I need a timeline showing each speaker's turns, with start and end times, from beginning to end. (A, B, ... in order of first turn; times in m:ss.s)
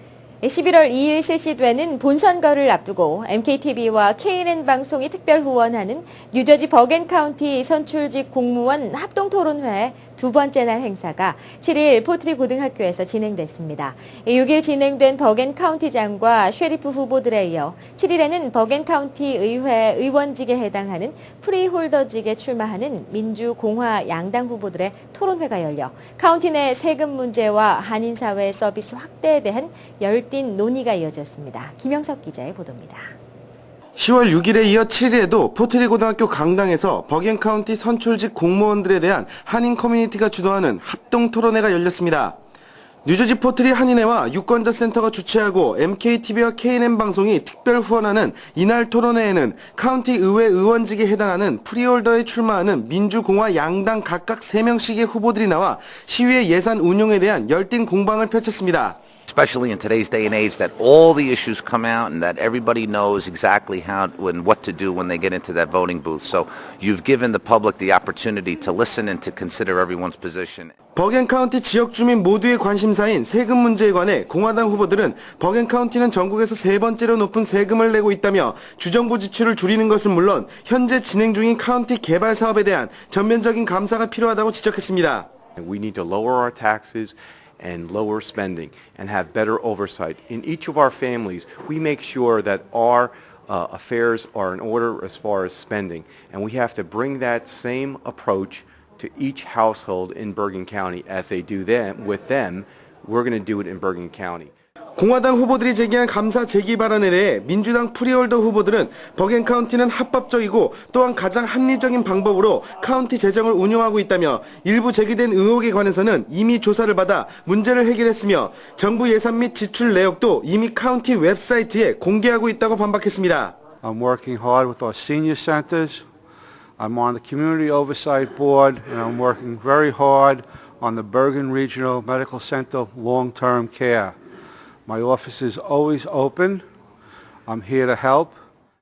0:00.4-0:33.1 A
0:34.0-0:42.4 B
0:43.0-0:59.0 B
0:59.3-1:10.7 C
1:10.9-1:25.3 B
1:25.6-1:44.5 D
1:45.0-2:03.6 B
2:03.8-2:06.0 E
2:06.8-2:14.1 E
2:14.8-2:16.6 E
2:17.5-2:18.3 E